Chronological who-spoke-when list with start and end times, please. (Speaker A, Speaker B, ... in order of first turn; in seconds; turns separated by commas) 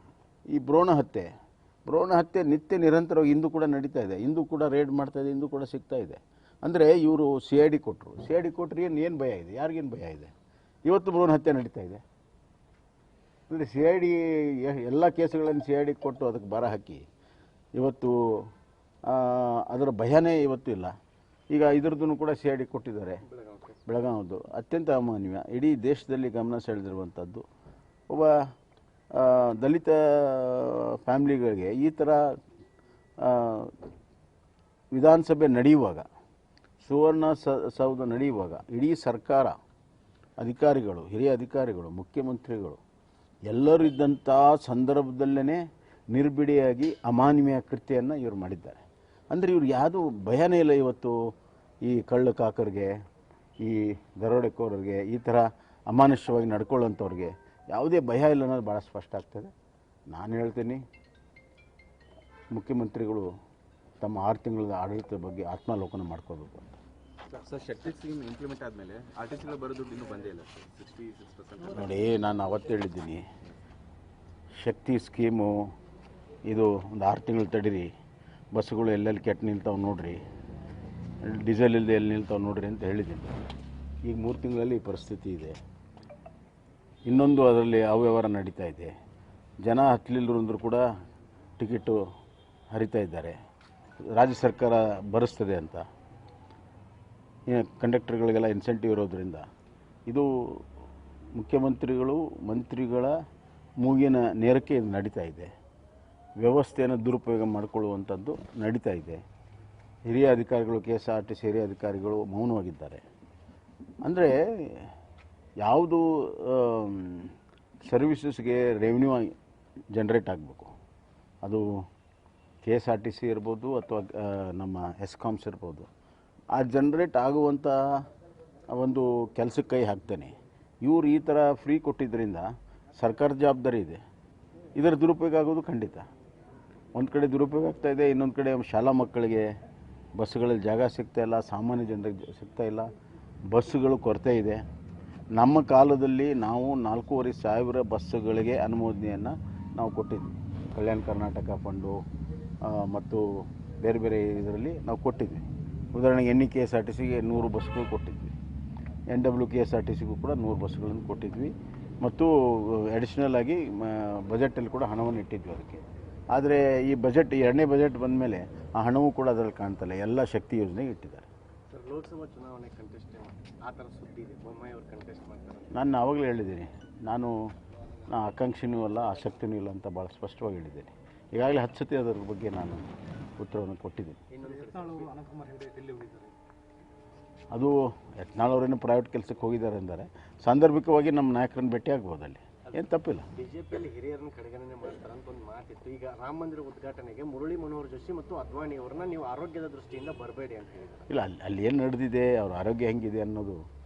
Speaker A: 0.5-1.3, Speaker A: 1.9-10.3, Speaker A: 10.8-12.0, Speaker A: 13.5-17.1, Speaker A: 17.8-18.5, Speaker A: 19.1-20.9, Speaker A: 21.5-23.2, Speaker B: 23.3-23.7, Speaker A: 23.8-27.4, Speaker A: 28.1-28.5, Speaker A: 29.1-32.4, Speaker A: 33.2-33.8, Speaker A: 34.9-36.1, Speaker A: 36.8-39.6, Speaker A: 40.4-42.8, Speaker A: 43.5-51.2, Speaker A: 51.8-53.0, Speaker A: 53.6-59.5, Speaker A: 60.1-60.8, Speaker A: 62.5-63.3, Speaker A: 64.0-66.8, Speaker C: 67.3-71.8, Speaker A: 71.7-73.2, Speaker A: 74.6-75.6, Speaker A: 76.5-77.9, Speaker A: 78.5-80.2, Speaker A: 81.2-83.4, Speaker A: 84.0-85.6, Speaker A: 87.0-88.9, Speaker A: 89.6-90.8, Speaker A: 91.6-92.1, Speaker A: 92.7-93.4, Speaker A: 94.0-95.9, Speaker A: 97.5-99.5, Speaker A: 100.1-100.7, Speaker A: 101.3-103.2, Speaker A: 103.8-105.5, Speaker A: 106.4-109.2, Speaker A: 110.1-113.0, Speaker A: 114.0-114.9, Speaker A: 115.6-117.3, Speaker A: 117.8-119.3, Speaker A: 119.9-120.7, Speaker A: 121.4-121.8, Speaker A: 122.6-125.9, Speaker A: 126.5-128.1, Speaker A: 128.7-134.0, Speaker A: 134.8-136.1, Speaker A: 136.9-139.5, Speaker A: 140.2-142.9, Speaker A: 143.5-144.6, Speaker A: 145.3-152.0, Speaker A: 152.6-158.3, Speaker A: 159.1-165.8, Speaker A: 166.3-171.3, Speaker B: 171.7-175.7, Speaker A: 175.7-177.3, Speaker A: 178.1-184.2, Speaker B: 184.3-186.3, Speaker C: 185.3-186.2, Speaker A: 187.5-193.3, Speaker B: 193.3-201.0, Speaker A: 201.1-203.6